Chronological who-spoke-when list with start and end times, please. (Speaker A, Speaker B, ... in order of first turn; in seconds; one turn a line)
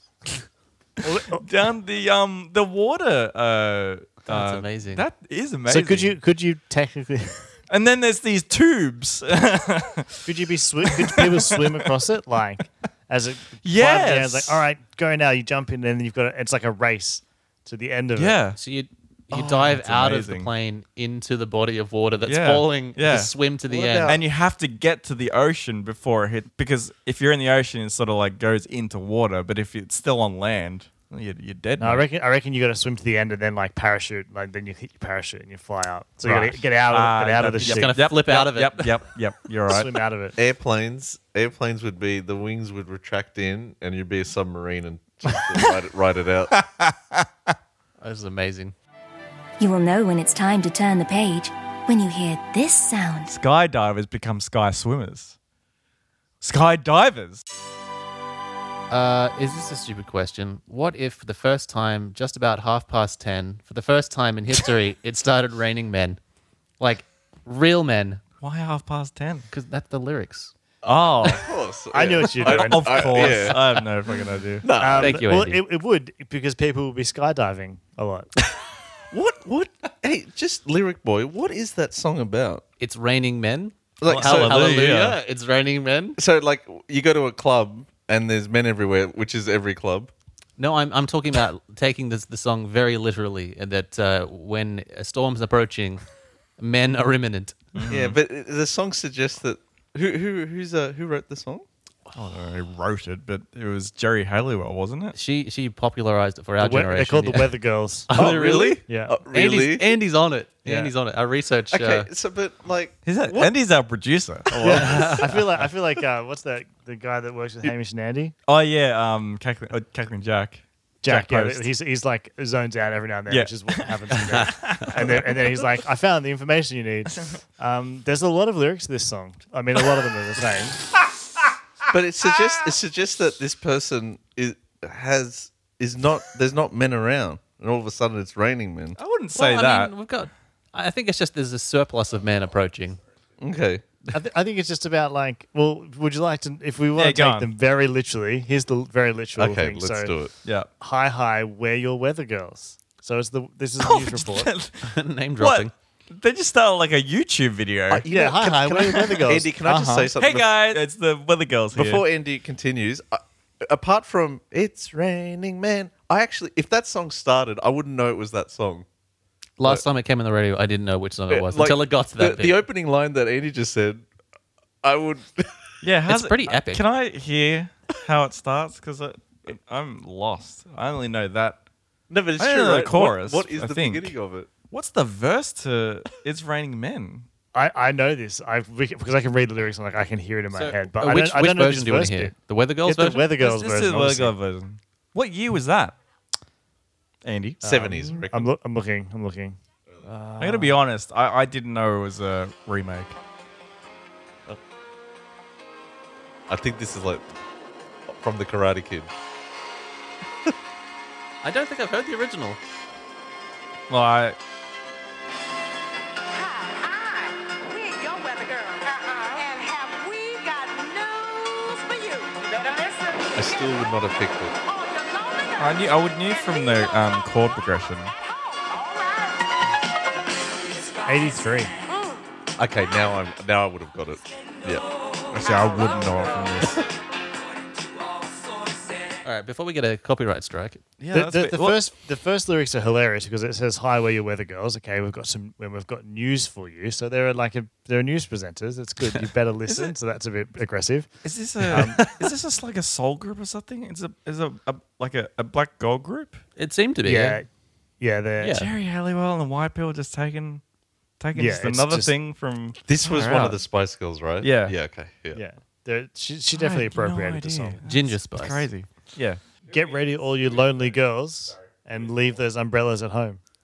Speaker A: 1.0-1.4
Speaker B: 1.3-6.2
Speaker C: 4.3-5.1
Speaker A: 5.7-7.5
Speaker B: 7.7-10.3
Speaker A: 10.2-18.4
Speaker B: 10.8-11.9
Speaker B: 13.6-14.6
Speaker B: 18.2-18.6
Speaker C: 18.6-24.2
Speaker B: 19.3-20.5
Speaker B: 22.2-23.3
Speaker D: 23.7-24.2
Speaker B: 24.1-32.0
Speaker A: 31.8-38.0
Speaker B: 36.2-39.9
Speaker C: 37.6-39.0
Speaker A: 39.7-40.4
Speaker D: 40.4-46.5
Speaker B: 46.6-47.3
Speaker C: 48.0-48.7
Speaker E: 49.6-53.4
Speaker B: 53.3-55.4
Speaker B: 56.4-57.4
Speaker C: 58.9-66.2
Speaker C: 66.8-68.2
Speaker B: 68.4-69.5
Speaker C: 69.5-70.5
Speaker B: 70.8-71.5
Speaker D: 70.8-73.8
Speaker A: 71.9-73.4
Speaker B: 72.4-74.7
Speaker D: 74.6-75.2
Speaker A: 74.8-78.3
Speaker C: 75.0-75.6
Speaker D: 79.1-82.6
Speaker C: 82.8-86.2
Speaker D: 84.0-84.9
Speaker B: 84.1-85.2
Speaker D: 86.2-90.1
Speaker C: 90.6-96.0
Speaker C: 96.6-97.7
Speaker B: 97.8-98.2
Speaker D: 97.9-101.7
Speaker B: 102.1-105.2
Speaker C: 105.2-107.6
Speaker A: 106.6-108.1
Speaker C: 108.1-112.1
Speaker D: 108.1-109.9
Speaker A: 108.9-109.2
Speaker A: 110.7-110.9
Speaker D: 111.7-113.5
Speaker B: 113.0-115.3
Speaker A: 114.6-118.3
Speaker C: 114.7-115.3
Speaker D: 114.8-115.1
Speaker B: 118.5-121.7
Speaker A: 121.0-130.8
Speaker B: 123.3-125.4
Speaker C: 124.3-124.8
Speaker D: 131.9-139.0
Speaker B: 139.0-139.9
Speaker C: 139.3-143.0
Speaker D: 143.4-143.8
Speaker A: 144.1-150.1
Speaker B: 147.0-147.5
Speaker D: 149.4-150.3
Speaker B: 150.4-150.7
Speaker A: 150.8-154.5
Speaker B: 153.8-158.1
Speaker C: 154.8-155.7
Speaker D: 157.9-160.8
Speaker A: 158.1-160.1
Speaker B: 160.2-162.0
Speaker D: 161.7-168.9
Speaker C: 169.6-172.6
Speaker D: 171.3-174.1
Speaker D: 174.8-175.6
Speaker B: 175.8-181.6
Speaker C: 176.1-176.8
Speaker D: 182.1-184.5
Speaker B: 182.4-184.1
Speaker B: 184.7-187.3
Speaker A: 187.5-192.3
Speaker C: 190.5-193.3
Speaker A: 192.8-194.3
Speaker B: 193.3-196.0
Speaker B: 197.2-197.6
Speaker A: 197.6-200.8
Speaker D: 197.6-198.5
Speaker B: 200.4-203.2
Speaker D: 206.5-207.3
Speaker D: 208.1-209.1
Speaker C: 211.4-212.6
Speaker B: 213.9-214.4
Speaker E: 216.2-223.8
Speaker D: 223.4-224.6
Speaker E: 224.6-227.1
Speaker B: 225.6-228.1
Speaker E: 228.2-229.6
Speaker A: 231.1-231.7
Speaker E: 231.9-232.2
Speaker D: 232.6-234.9
Speaker B: 235.3-236.8
Speaker C: 239.2-240.8
Speaker B: 241.0-241.8
Speaker A: 241.1-252.0
Speaker B: 249.7-249.9
Speaker B: 251.2-256.4
Speaker C: 251.7-252.3
Speaker C: 256.6-257.4
Speaker A: 257.0-257.5
Speaker A: 258.0-258.6
Speaker C: 258.4-258.7
Speaker B: 258.5-260.6
Speaker B: 261.2-263.6
Speaker A: 261.4-262.1
Speaker D: 262.9-265.4
Speaker B: 264.4-264.8
Speaker A: 265.3-267.8
Speaker B: 266.5-269.4
Speaker C: 267.8-268.7
Speaker A: 269.7-273.4